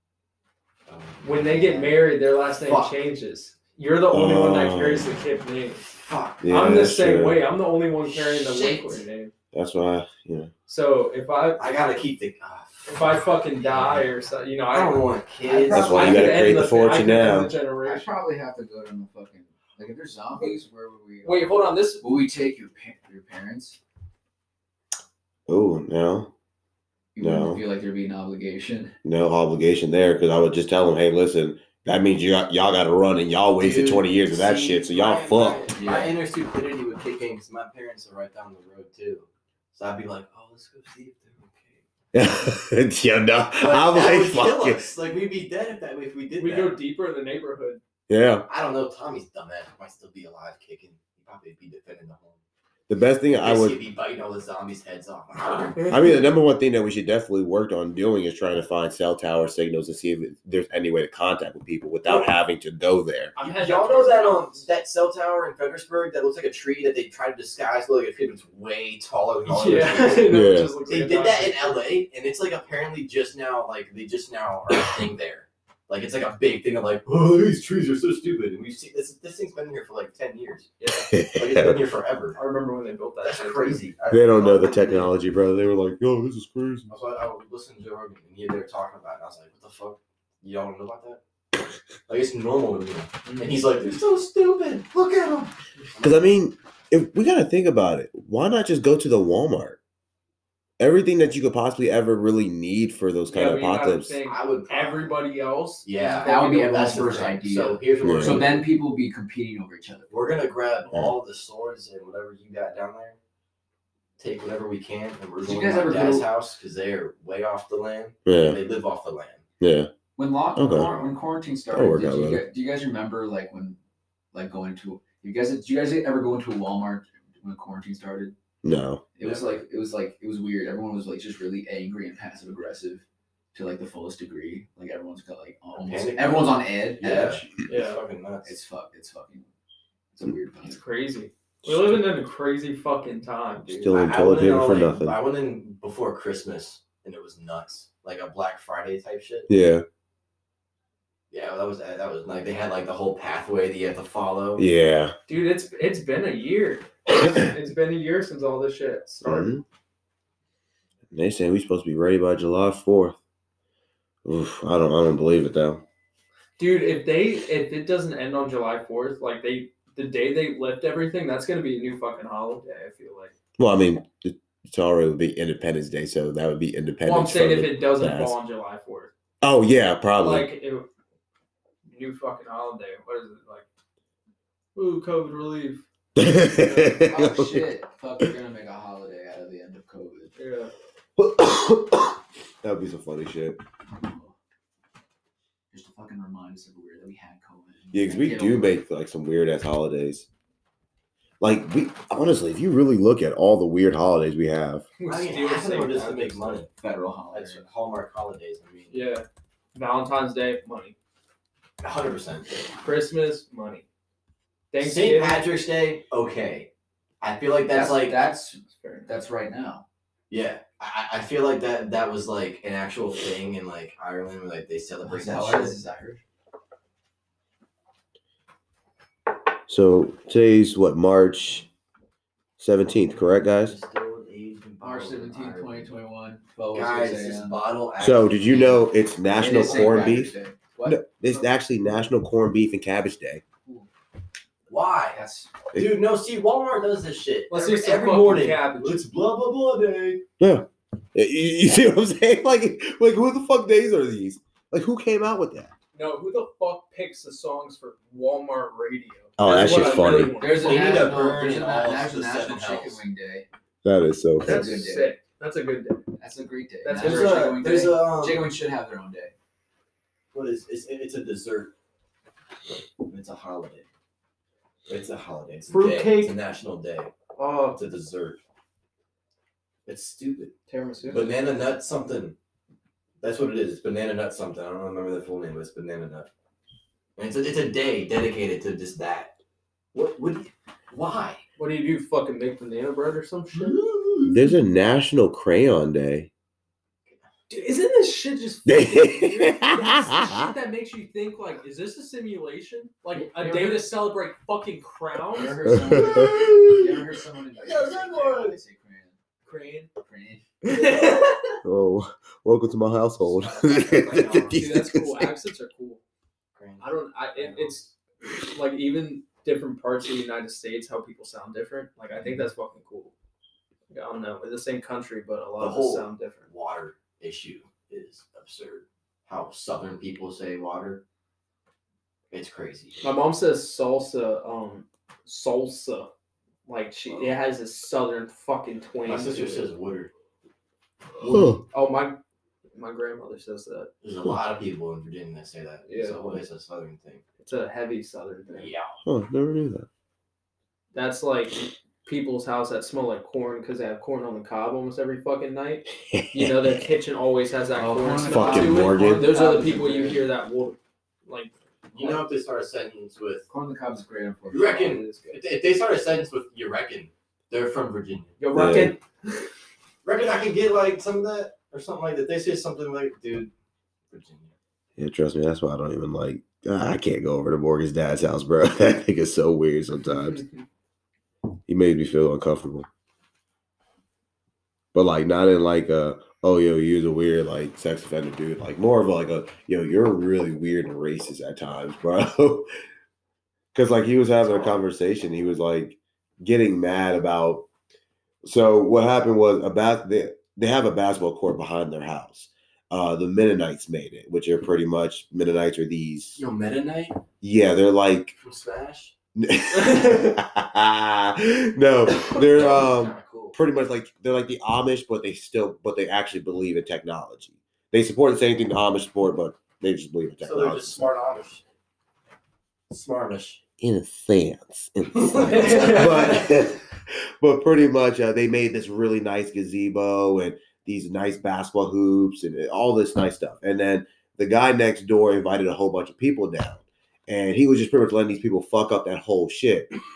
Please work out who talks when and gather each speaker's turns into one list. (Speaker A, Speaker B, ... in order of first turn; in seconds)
Speaker A: 0.9-2.0, 2.6-2.9, 6.0-6.4, 8.1-9.0, 11.6-14.1, 14.7-16.4, 33.6-41.8, 43.6-46.8, 48.5-52.4, 53.3-55.9, 63.4-80.7, 81.3-82.4, 83.2-85.1, 86.9-91.2, 92.1-96.3, 104.2-105.2, 105.8-108.7, 110.1-113.2, 114.2-119.4, 120.7-121.2, 129.2-129.6, 135.8-138.6, 143.9-149.5, 151.3-154.7, 205.1-206.7, 207.3-209.0, 211.8-212.6, 214.8-216.7, 217.2-218.2, 220.3-225.8, 233.4-235.9, 236.7-240.3, 244.7-245.2, 245.7-250.2, 260.5-263.0, 266.9-268.5, 270.3-271.7, 273.0-273.9, 274.9-277.1, 277.7-278.4, 279.9-280.5, 281.1-282.4, 283.2-286.3, 287.2-289.3, 289.9-291.4, 293.5-294.4, 306.1-306.7, 307.6-308.6, 313.6-314.6, 316.5-317.8, 325.6-331.0, 332.3-333.0, 339.1-340.1, 344.0-347.2, 348.5-349.0, 361.9-363.5, 364.5-368.4, 370.0-373.5, 374.1-374.5, 394.4-394.8, 406.4-407.2, 408.4-409.1, 412.1-413.6, 420.4-421.6, 422.9-423.6, 425.2-426.5
Speaker B: 1.2-5.8, 6.5-9.3, 10.7-11.7, 12.8-18.1, 21.2-22.1, 46.4-47.8, 63.4-64.7, 69.5-71.8, 80.8-81.1, 82.3-83.8, 93.2-93.6, 103.3-107.0, 137.7-138.0, 140.6-143.9, 155.3-159.5, 166.6-173.3, 177.0-179.1, 180.2-180.9, 181.9-183.6, 184.7-185.8, 190.3-190.7, 205.0-206.6, 208.9-210.9, 212.8-213.8, 214.7-215.4, 218.7-219.1, 247.5-249.0, 255.9-261.2, 264.4-266.0, 266.8-267.6, 275.7-276.4, 277.4-277.8, 280.7-281.3, 291.6-293.8, 297.5-305.7, 309.4-309.9, 310.6-311.6, 314.1-316.0, 316.8-323.1, 323.9-326.5, 333.0-336.1, 336.6-339.7, 341.2-342.2, 342.7-343.9, 345.9-346.4, 347.4-348.7, 350.9-362.2, 368.4-369.5, 425.4-426.4
Speaker C: 4.1-5.1, 6.4-7.4, 9.5-10.5, 15.7-17.5, 25.5-26.3, 27.2-27.6, 29.0-35.6, 42.1-44.9, 48.1-48.5, 52.9-53.8, 55.9-63.3, 70.3-70.7, 81.1-81.8, 84.1-86.9, 96.0-99.8, 100.8-104.2, 108.0-108.4, 118.2-118.6, 119.6-119.9, 120.5-120.9, 121.7-122.4, 128.6-129.0, 141.6-142.0, 143.7-145.2, 149.5-149.8, 154.6-155.1, 157.2-157.5, 159.2-159.6, 161.1-163.2, 164.2-165.8, 173.6-178.3, 179.4-180.5, 186.1-187.7, 191.2-193.6, 197.9-200.2, 201.4-204.8, 229.7-231.7, 232.6-233.8, 238.0-240.3, 240.8-243.4, 250.4-255.7, 259.4-260.4, 263.8-264.6, 294.2-296.3, 298.6-300.5, 305.7-306.5, 311.6-315.3, 341.2-341.6, 349.0-349.9, 356.0-356.8, 358.3-359.3, 368.5-368.9, 375.0-380.4, 381.7-382.9, 384.9-392.7, 393.7-397.7, 398.4-406.4, 407.4-408.4, 409.4-421.1, 423.8-439.9
Speaker D: 15.5-16.0, 17.8-23.8, 27.1-28.9, 35.8-36.1, 106.0-110.1, 115.4-116.3, 120.2-123.8, 124.3-128.3, 129.1-137.5, 138.4-139.5, 140.1-140.8, 186.8-190.3, 193.9-194.3, 195.7-198.8, 206.7-207.6, 217.7-219.8, 225.0-226.2, 234.8-237.6, 239.3-241.4, 245.1-245.5, 259.7-263.4, 264.4-265.1, 266.2-269.3, 303.1-303.8, 305.3-309.2, 310.0-310.5, 313.4-314.4, 357.7-360.3, 363.5-365.3